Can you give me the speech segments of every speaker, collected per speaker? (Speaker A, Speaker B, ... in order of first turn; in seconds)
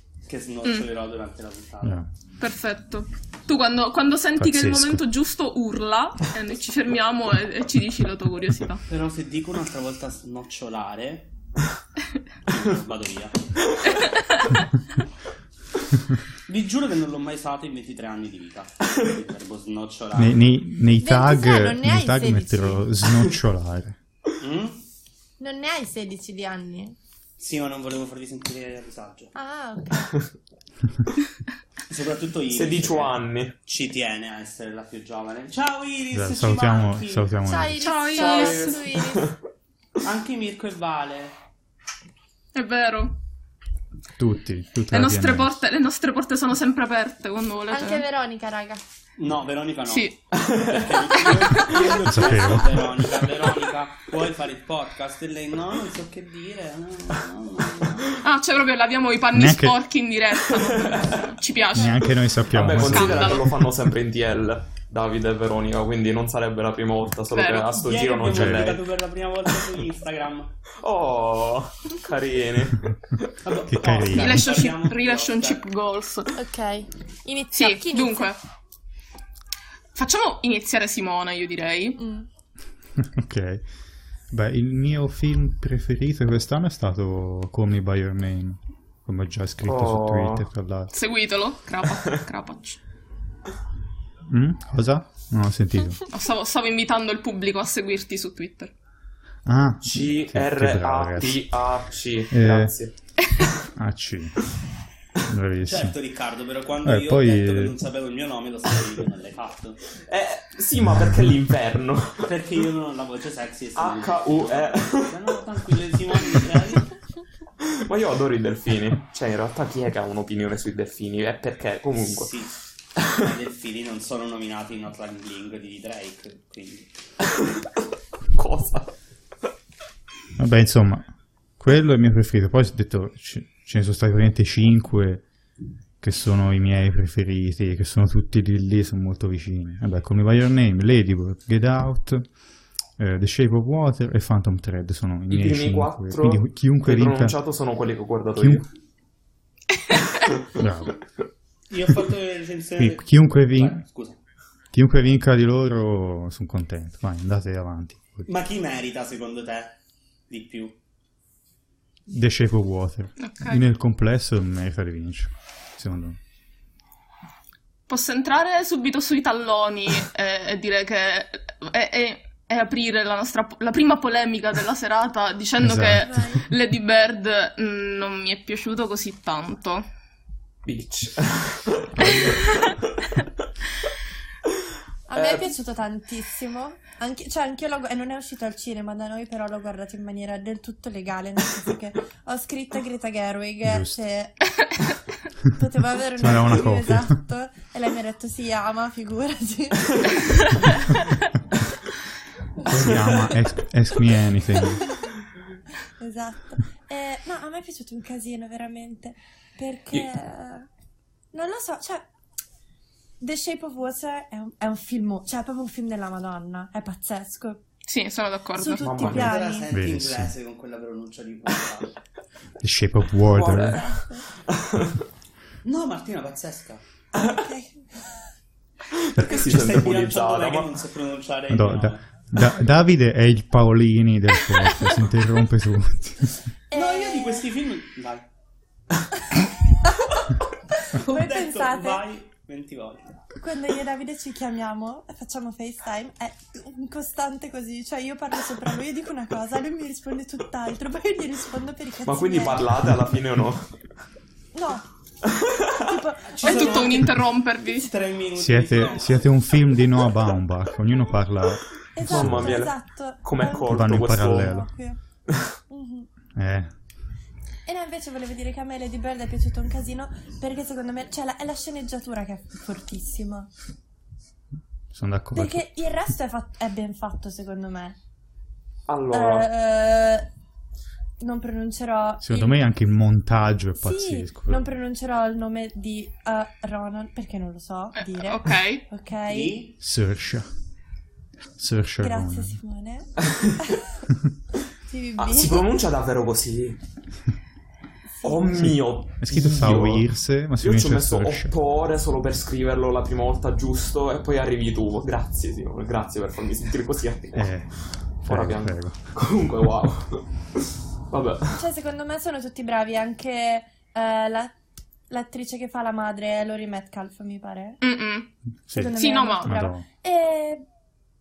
Speaker A: 0.2-2.0, 8.9-11.3, 12.5-13.5, 16.5-20.5, 24.4-24.8, 27.4-29.3, 31.9-37.4, 40.0-41.3, 49.2-58.2, 67.7-70.5, 73.4-75.6, 105.6-109.8, 112.2-116.9, 122.0-122.5, 123.0-126.9, 151.7-154.2, 158.3-159.8, 160.3-160.7, 219.0-221.9, 225.6-226.8, 229.3-232.1, 236.7-238.3, 240.9-243.2, 256.2-257.2, 257.7-259.3, 289.2-289.8
Speaker B: 1.8-2.1, 4.4-5.0, 20.1-24.0, 36.1-37.9, 44.2-45.6, 52.0-53.1, 59.3-59.8, 61.7-63.9, 68.3-68.8, 73.7-74.6, 83.0-83.6, 84.3-90.9, 94.3-96.0, 99.4-101.5, 102.3-102.7, 103.7-104.5, 105.2-106.0, 106.8-107.8, 130.4-131.1, 131.6-135.2, 136.0-142.3, 143.0-147.3, 148.3-148.6, 150.6-151.0, 152.8-153.8, 154.7-158.3, 162.1-166.2, 175.6-176.2, 193.6-194.0, 196.2-197.2, 202.7-204.8, 219.7-220.3, 222.6-223.9, 231.5-236.4, 258.3-262.7, 263.6-264.7, 266.3-266.7, 274.9-275.6, 282.2-284.7, 289.8-290.5, 291.6-292.6, 298.6-301.5, 307.3-309.1, 318.6-319.9
Speaker C: 2.4-8.8, 37.8-38.8, 42.5-43.2, 44.9-48.0, 49.9-50.1, 51.2-51.9, 58.2-63.6, 67.3-67.7, 74.1-76.3, 77.5-78.4, 79.9-82.0, 90.9-92.8, 96.1-98.7, 163.2-163.6, 167.9-179.8, 182.2-182.5, 217.8-219.1, 256.4-257.9, 287.9-288.9, 317.8-318.3, 318.9-319.5
Speaker D: 21.0-22.9, 25.4-26.9, 29.3-30.1, 37.4-39.3, 47.7-48.8, 76.3-78.3, 82.0-82.3, 175.9-176.4, 185.1-194.4, 195.5-200.8, 206.0-210.7, 211.3-212.1, 213.2-217.6, 218.6-219.7, 223.6-224.2, 227.2-228.0, 236.7-237.5, 239.9-240.2, 240.8-242.0, 243.4-252.9, 254.5-254.8, 255.8-257.2, 261.9-265.0, 265.7-266.1, 267.6-273.5, 275.3-278.0, 279.1-280.3, 281.2-282.6, 283.8-289.6, 292.0-293.8, 294.9-295.7, 298.1-298.5, 311.5-314.5, 315.1-317.8, 318.7-320.6
Speaker E: 32.5-33.5, 38.1-39.3, 50.4-51.0, 60.6-61.2, 62.5-68.9, 70.8-73.3, 89.6-90.5, 99.8-102.9, 110.0-112.3, 113.8-115.2, 117.6-122.3, 127.4-127.7, 128.3-128.9, 145.3-148.7, 180.7-183.2, 185.1-185.4, 202.7-203.3, 218.8-219.4, 223.3-225.0, 228.9-230.7, 252.0-253.6, 255.3-255.9, 262.0-264.6, 278.9-279.5, 293.3-293.7, 295.2-296.8, 298.2-307.6, 308.2-310.6, 311.1-311.6